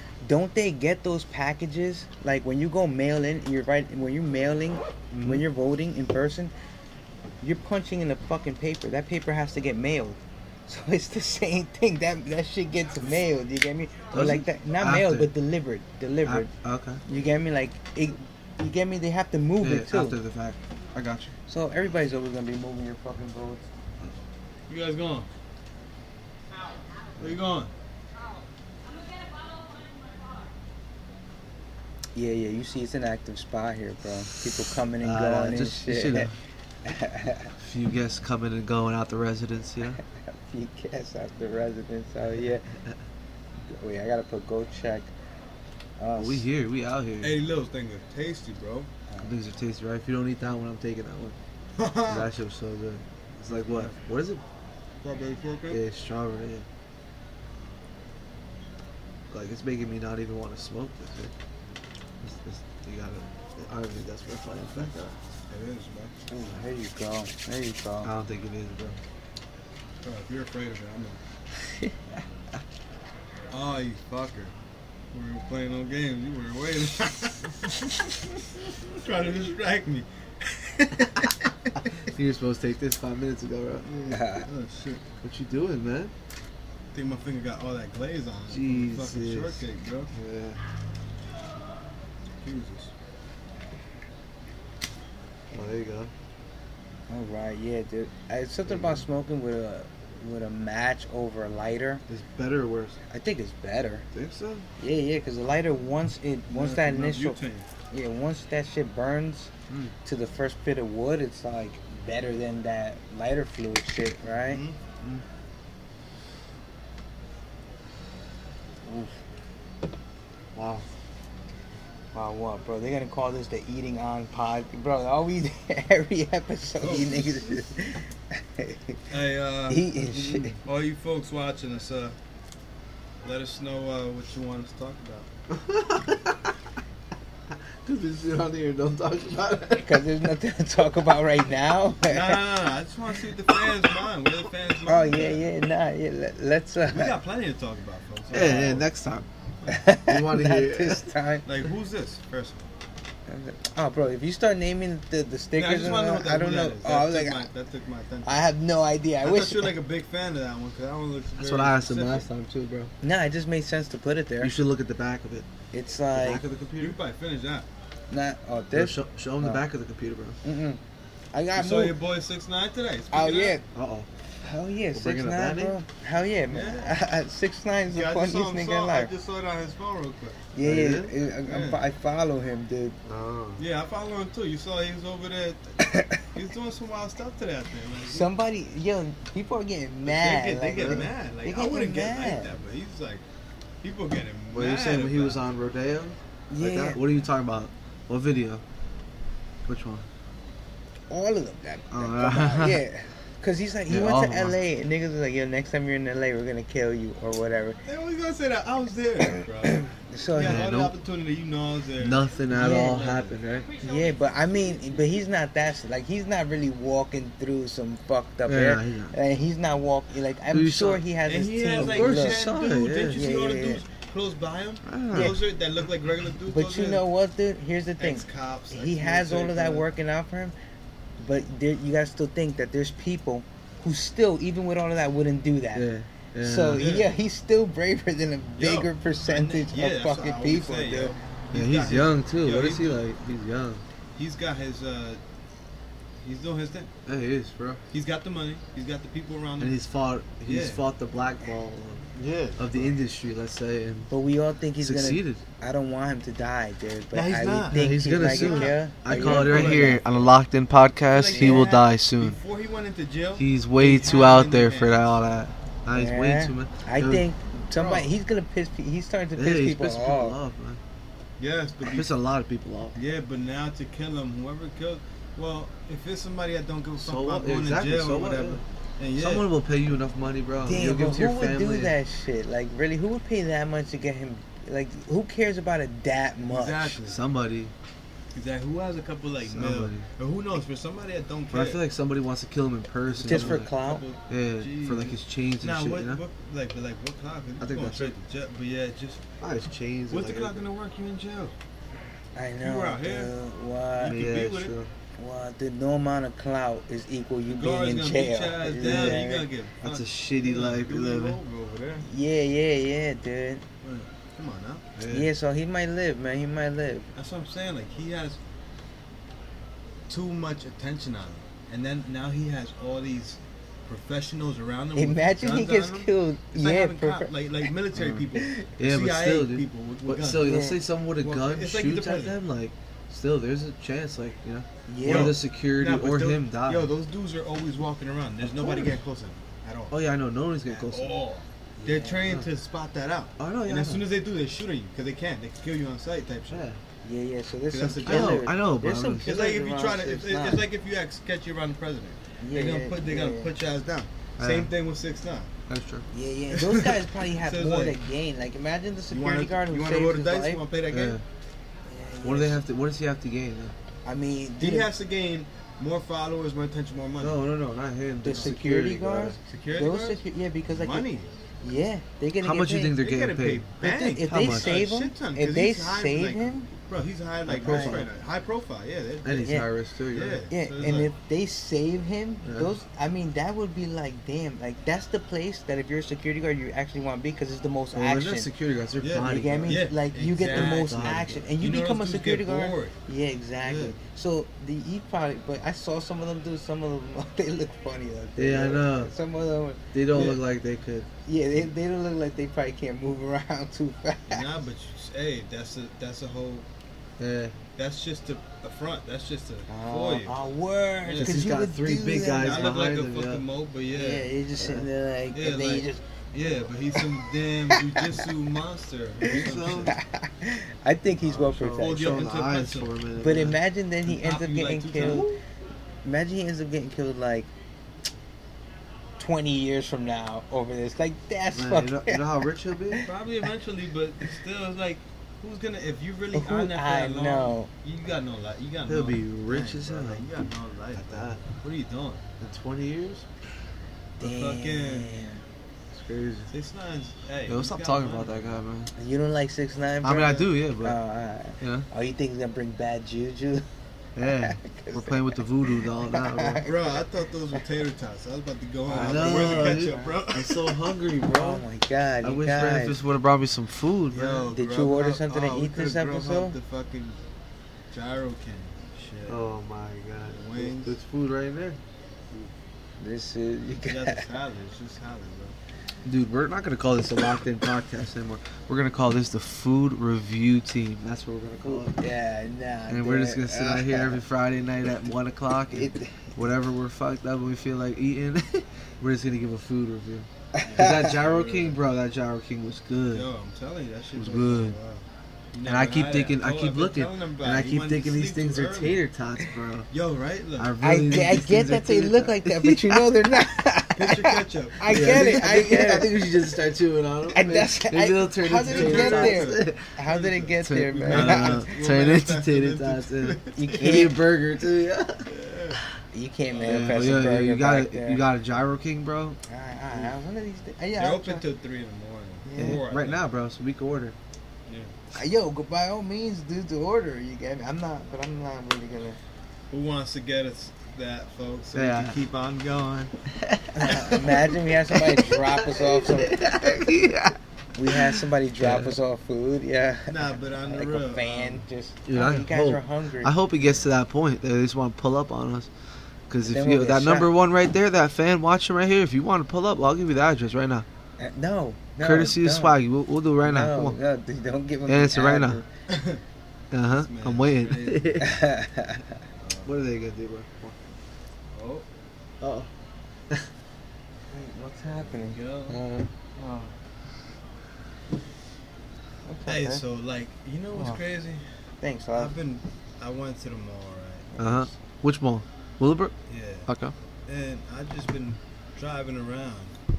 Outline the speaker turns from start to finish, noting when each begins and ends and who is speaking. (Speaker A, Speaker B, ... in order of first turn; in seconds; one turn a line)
Speaker A: 0.2-6.5
Speaker B: 5.1-5.5
Speaker A: 7.4-16.5
Speaker B: 14.1-15.3
Speaker B: 16.2-17.0
Speaker A: 17.1-20.2
Speaker B: 19.6-21.3
Speaker A: 21.5-23.7
Speaker C: 24.7-25.3
Speaker C: 27.2-27.7
Speaker A: 32.1-36.3
Speaker B: 35.0-36.3
Speaker A: 36.9-37.5
Speaker B: 37.6-40.0
Speaker A: 40.3-42.6
Speaker A: 43.7-45.1
Speaker A: 46.0-46.5
Speaker B: 46.2-47.4
Speaker C: 47.2-48.9
Speaker A: 49.1-49.4
Speaker B: 49.2-51.4
Speaker C: 51.8-52.3
Speaker B: 52.1-54.4
Speaker C: 53.5-54.0
Speaker C: 55.0-55.8
Speaker B: 55.7-56.7
Speaker B: 59.3-61.3
Speaker B: 62.2-65.2
Speaker C: 65.5-66.2
Speaker A: 66.3-68.1
Speaker B: 68.0-69.0
Speaker C: 70.0-71.2
Speaker C: 73.5-74.5
Speaker C: 75.1-78.1
Speaker C: 78.9-81.3
Speaker B: 82.1-83.9
Speaker C: 83.8-85.0
Speaker A: 84.1-84.5
Speaker B: 85.2-86.1
Speaker C: 86.9-90.1
Speaker B: 88.5-89.6
Speaker B: 90.1-90.6
Speaker C: 92.4-92.9
Speaker B: 95.5-96.1
Speaker A: 97.1-102.0
Speaker B: 98.7-99.0
Speaker B: 102.1-103.0
Speaker A: 103.1-104.0
Speaker B: 104.1-104.7
Speaker A: 104.8-107.4
Speaker C: 106.5-107.7
Speaker A: 107.9-109.5
Speaker A: 110.0-114.6
Speaker C: 114.5-114.8
Speaker B: 120.5-120.9
Speaker A: 122.1-129.0
Speaker C: 126.8-127.7
Speaker C: 129.1-132.2
Speaker A: 129.7-130.6
Speaker B: 130.3-130.5
Speaker C: 133.2-135.3
Speaker B: 135.5-136.5
Speaker B: 137.8-140.0
Speaker A: 139.8-142.5
Speaker C: 142.1-145.5
Speaker A: 144.9-147.1
Speaker C: 146.9-148.9
Speaker B: 148.3-149.3
Speaker A: 149.7-151.5
Speaker B: 150.1-151.1
Speaker C: 151.4-152.7
Speaker A: 153.3-157.5
Speaker C: 155.6-158.5
Speaker A: 158.2-159.7
Speaker C: 159.2-162.3
Speaker B: 161.4-162.9
Speaker A: 163.0-164.5
Speaker B: 164.4-165.5
Speaker A: 165.7-166.4
Speaker B: 166.1-167.0
Speaker C: 166.8-167.7
Speaker A: 168.1-169.6
Speaker B: 168.7-170.4
Speaker A: 170.4-170.8
Speaker A: 171.3-172.0
Speaker C: 171.6-173.6
Speaker A: 173.1-173.6
Speaker B: 173.7-174.1
Speaker A: 174.4-179.1
Speaker B: 174.9-175.8
Speaker C: 176.5-177.0
Speaker C: 177.9-180.5
Speaker A: 180.5-183.0
Speaker B: 180.6-181.1
Speaker C: 181.4-181.8
Speaker B: 183.1-183.6
Speaker C: 183.6-188.3
Speaker A: 185.9-186.2
Speaker A: 188.1-192.5
Speaker C: 190.1-193.2
Speaker B: 190.8-191.1
Speaker C: 193.8-195.5
Speaker B: 194.5-198.6
Speaker A: 196.5-197.0
Speaker B: 199.7-200.1
Speaker A: 201.1-207.8
Speaker B: 201.9-202.8
Speaker B: 203.9-204.6
Speaker C: 207.9-213.4
Speaker A: 209.7-210.6
Speaker B: 210.4-210.9
Speaker B: 212.0-213.7
Speaker A: 212.5-213.0
Speaker A: 213.8-222.5
Speaker B: 218.5-219.2
Speaker B: 220.5-221.1
Speaker C: 221.3-227.0
Speaker B: 221.8-223.2
Speaker A: 223.1-223.8
Speaker B: 224.9-225.4
Speaker A: 225.1-225.4
Speaker A: 226.5-230.6
Speaker C: 228.0-229.9
Speaker A: 231.2-235.9
Speaker B: 235.7-236.9
Speaker A: 236.4-241.2
Speaker C: 236.7-237.1
Speaker C: 238.6-243.0
Speaker B: 241.5-243.8
Speaker C: 244.2-245.2
Speaker C: 246.2-246.9
Speaker B: 247.1-247.8
Speaker C: 247.9-249.8
Speaker B: 249.6-254.1
Speaker C: 250.4-250.8
Speaker C: 252.2-253.0
Speaker A: 254.1-260.0
Speaker B: 254.8-255.4
Speaker C: 257.1-260.3
Speaker B: 257.7-262.4
Speaker C: 261.1-265.2
Speaker A: 261.3-261.7
Speaker B: 263.4-267.2
Speaker A: 265.9-270.4
Speaker C: 267.7-268.1
Speaker B: 269.4-270.8
Speaker C: 271.4-272.1
Speaker B: 271.8-273.0
Speaker C: 273.0-279.5
Speaker B: 277.0-278.6
Speaker B: 279.2-282.0
Speaker A: 280.6-287.0
Speaker C: 286.5-287.2
Speaker B: 287.1-287.7
Speaker C: 288.3-291.8
Speaker B: 289.4-290.1
Speaker B: 291.5-293.7
Speaker C: 293.1-299.2
Speaker A: 293.2-294.1
Speaker B: 294.3-296.2
Speaker B: 297.6-298.1
Speaker B: 299.4-300.6
Speaker C: 300.1-301.5
Speaker A: 302.4-304.2
Speaker C: 302.6-303.3
Speaker C: 303.9-304.8
Speaker B: 304.1-304.9
Speaker A: 305.2-309.5
Speaker C: 307.5-312.1
Speaker B: 308.8-309.2
Speaker B: 309.8-311.4
Speaker A: 312.0-313.6
Speaker C: 313.8-315.0
Speaker B: 315.0-315.3
Speaker A: 315.1-317.1
Speaker C: 317.2-318.4
Speaker C: 320.1-330.7
Speaker A: 324.9-327.3
Speaker B: 327.9-328.3
Speaker A: 328.4-328.6
Speaker B: 328.8-336.9
Speaker A: 330.4-330.8
Speaker C: 331.2-332.4
Speaker A: 334.9-335.4
Speaker C: 335.0-340.0
Speaker B: 338.5-338.9
Speaker B: 339.9-341.1
Speaker C: 340.7-346.6
Speaker A: 341.8-342.3
Speaker B: 343.4-344.1
Speaker B: 346.5-346.8
Speaker A: 347.0-350.6
Speaker C: 347.7-348.5
Speaker B: 348.0-349.3
Speaker C: 349.2-355.5
Speaker A: 352.4-353.5
Speaker B: 354.4-354.7
Speaker B: 355.7-356.1
Speaker A: 356.1-360.6
Speaker C: 356.5-358.0
Speaker C: 359.1-361.2
Speaker B: 360.9-361.2
Speaker A: 361.9-362.6
Speaker B: 362.2-363.8
Speaker A: 364.1-364.9
Speaker C: 364.6-367.4
Speaker B: 367.2-369.4
Speaker A: 368.2-371.1
Speaker C: 368.3-368.6
Speaker C: 369.4-371.3
Speaker A: 371.6-373.0
Speaker B: 372.4-373.7
Speaker C: 373.0-379.6
Speaker A: 373.8-376.7
Speaker B: 374.2-374.8
Speaker B: 377.5-378.1
Speaker A: 377.6-378.0
Speaker B: 379.2-380.5
Speaker C: 380.1-381.1
Speaker A: 380.5-388.5
Speaker B: 382.4-382.7
Speaker B: 387.9-389.9
Speaker C: 389.0-393.0
Speaker A: 389.2-400.4
Speaker B: 390.5-391.4
Speaker C: 393.6-394.0
Speaker B: 398.4-399.1
Speaker B: 399.9-401.1
Speaker C: 400.1-400.4
Speaker A: 401.3-404.5
Speaker C: 404.3-406.7
Speaker B: 407.2-407.6
Speaker C: 407.8-410.3
Speaker A: 409.7-412.7
Speaker C: 411.1-411.4
Speaker B: 411.2-413.4
Speaker C: 412.3-414.3
Speaker A: 413.9-417.0
Speaker B: 414.6-414.9
Speaker C: 415.3-420.0
Speaker B: 419.3-420.0
Speaker A: 419.9-422.3
Speaker B: 421.2-423.6
Speaker C: 421.8-422.9
Speaker A: 423.2-425.3
Speaker C: 424.1-425.3
Speaker B: 425.0-425.4
Speaker A: 426.0-427.5
Speaker A: 429.2-432.2
Speaker B: 431.5-433.0
Speaker C: 433.0-442.2
Speaker A: 436.3-437.7
Speaker B: 438.9-440.3
Speaker B: 440.9-441.4
Speaker B: 442.4-443.3
Speaker C: 444.2-445.3
Speaker A: 444.2-445.4
Speaker B: 445.9-446.5
Speaker C: 446.5-448.6
Speaker B: 447.5-448.9
Speaker A: 449.0-453.6
Speaker B: 450.0-451.0
Speaker B: 451.6-451.9
Speaker B: 454.2-456.6
Speaker A: 454.4-456.9
Speaker C: 456.6-460.8
Speaker A: 458.9-460.2
Speaker B: 458.9-461.6
Speaker A: 461.3-463.0
Speaker B: 462.2-464.5
Speaker C: 464.1-467.2
Speaker A: 464.5-466.6
Speaker C: 467.9-469.5
Speaker B: 469.3-471.8
Speaker C: 470.3-471.0
Speaker A: 473.0-474.2
Speaker C: 473.8-475.6
Speaker B: 476.1-482.0
Speaker A: 481.6-484.2
Speaker B: 482.9-493.3
Speaker A: 485.7-486.2
Speaker A: 490.6-491.1
Speaker C: 490.6-491.8
Speaker C: 493.1-499.0
Speaker B: 494.1-494.8
Speaker B: 495.6-499.9
Speaker C: 499.9-500.8
Speaker B: 500.6-503.1
Speaker A: 500.8-506.1
Speaker C: 503.9-505.6
Speaker B: 504.9-509.8
Speaker A: 507.3-511.7
Speaker C: 508.7-514.2
Speaker B: 510.6-515.3
Speaker A: 513.6-514.2
Speaker C: 515.3-515.8
Speaker A: 516.1-518.3
Speaker C: 516.5-517.1
Speaker B: 516.6-519.4
Speaker A: 519.5-521.4
Speaker C: 521.0-523.3
Speaker A: 522.5-522.8
Speaker B: 522.6-524.2
Speaker C: 524.7-524.9
Speaker A: 525.1-529.2
Speaker C: 529.7-533.1
Speaker B: 531.7-532.2
Speaker B: 533.4-534.0
Speaker A: 533.8-536.5
Speaker C: 533.8-534.5
Speaker B: 534.9-539.0
Speaker A: 537.8-543.4
Speaker C: 540.1-541.6
Speaker B: 542.1-545.7
Speaker B: 546.3-550.9
Speaker A: 546.5-547.3
Speaker A: 551.2-552.8
Speaker B: 552.0-554.0
Speaker A: 553.4-555.7
Speaker B: 554.9-555.6
Speaker C: 555.9-556.2
Speaker B: 556.7-558.3
Speaker C: 556.9-558.4
Speaker A: 558.2-559.1
Speaker C: 559.4-559.8
Speaker B: 559.6-560.8
Speaker C: 561.5-561.9
Speaker B: 562.4-562.7
Speaker A: 564.3-565.4
Speaker C: 565.0-565.8
Speaker B: 565.7-566.1
Speaker C: 566.4-566.7
Speaker A: 569.3-569.8
Speaker C: 569.5-571.4
Speaker A: 571.8-572.3
Speaker C: 572.1-574.8
Speaker B: 574.4-576.1
Speaker C: 576.3-576.7
Speaker B: 576.7-576.9
Speaker C: 577.3-579.8